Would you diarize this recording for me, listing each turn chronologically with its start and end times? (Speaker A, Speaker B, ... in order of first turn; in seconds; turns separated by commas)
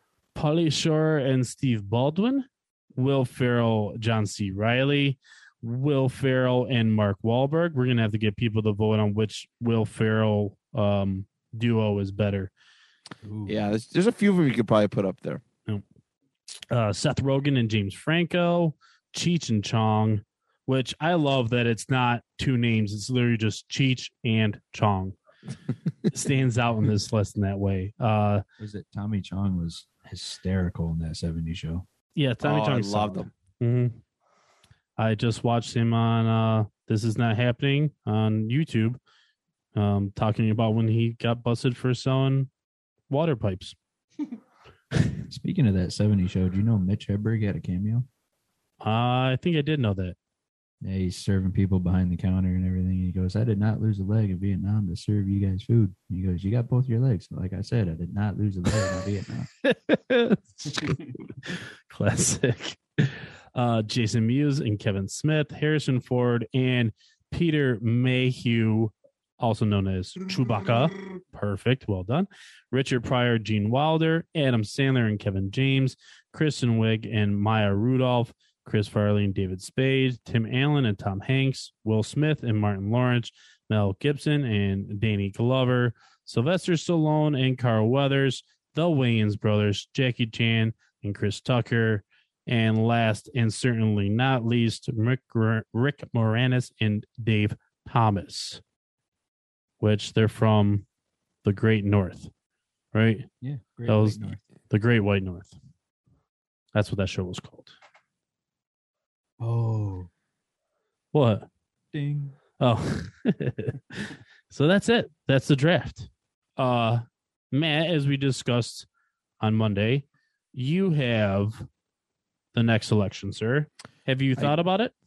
Speaker A: 0.3-12.5, Speaker B: 13.2-13.6, Speaker C: 13.5-15.4, Speaker A: 16.7-25.1, Speaker A: 26.1-28.4, Speaker B: 28.6-31.9, Speaker A: 32.1-34.0, Speaker C: 32.4-33.3, Speaker A: 35.0-39.0, Speaker A: 39.7-42.5, Speaker A: 43.1-43.8, Speaker B: 45.3-48.1, Speaker A: 48.8-50.1, Speaker B: 50.8-59.5, Speaker A: 59.6-98.6, Speaker A: 99.8-100.8, Speaker A: 101.4-102.3, Speaker A: 102.9-103.3, Speaker B: 103.4-104.4, Speaker A: 103.9-105.5, Speaker A: 106.7-107.7, Speaker B: 109.4-110.1, Speaker A: 111.1-111.5, Speaker B: 111.9-112.4, Speaker A: 112.6-118.9, Speaker A: 119.4-121.7, Speaker A: 122.5-124.9